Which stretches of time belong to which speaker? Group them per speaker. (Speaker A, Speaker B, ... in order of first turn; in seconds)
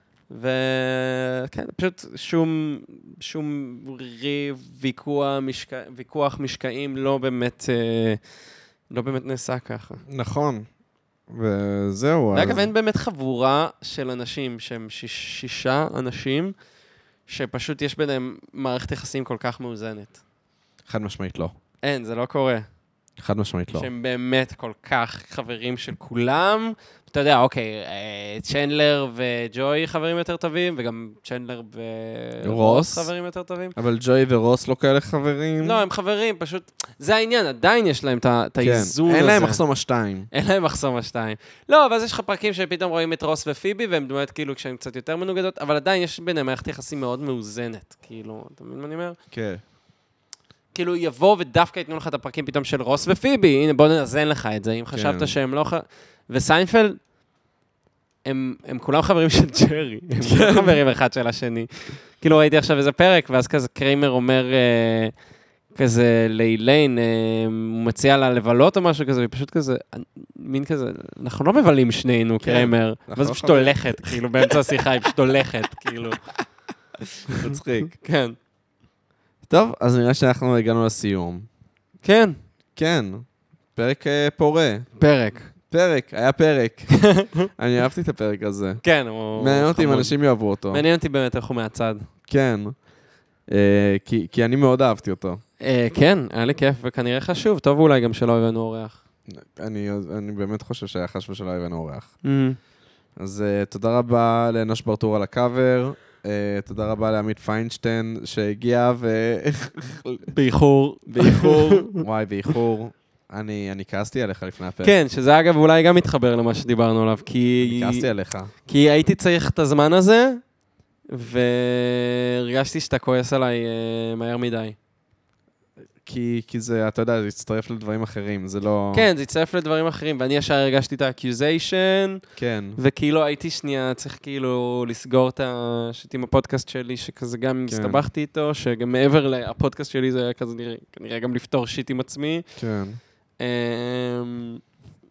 Speaker A: 0.3-8.2, 8.9-10.0, 12.3-16.5, 17.3-20.2, 21.8-22.6, 23.7-33.8, 35.6-39.6, 40.3-49.2, 50.7-57.0, 58.2-65.1, 65.7-76.2, 77.3-78.3, 82.0-82.4, 85.0-85.5, 87.0-87.5, 88.8-90.2, 90.7-92.1, 95.6-99.0, 102.2-102.6, 110.3-112.0, 114.8-118.1, 118.7-120.4, 121.1-124.8, 128.9-132.2, 132.8-142.4, 143.4-144.6
Speaker B: 10.1-10.7, 11.3-12.7, 20.9-21.5, 23.2-23.9, 32.4-33.1, 33.8-35.8, 38.6-40.3, 49.3-49.6, 54.9-55.3, 60.3-60.8, 72.4-75.1, 77.3-77.9, 79.5-81.5, 82.8-83.2, 83.7-84.8, 85.7-88.8, 89.3-90.8, 92.3-92.7, 93.5-95.4, 99.3-102.1, 103.2-110.3, 111.1-114.9, 117.6-118.5, 126.0-129.1, 132.4-132.8, 137.7-138.0, 142.6-143.0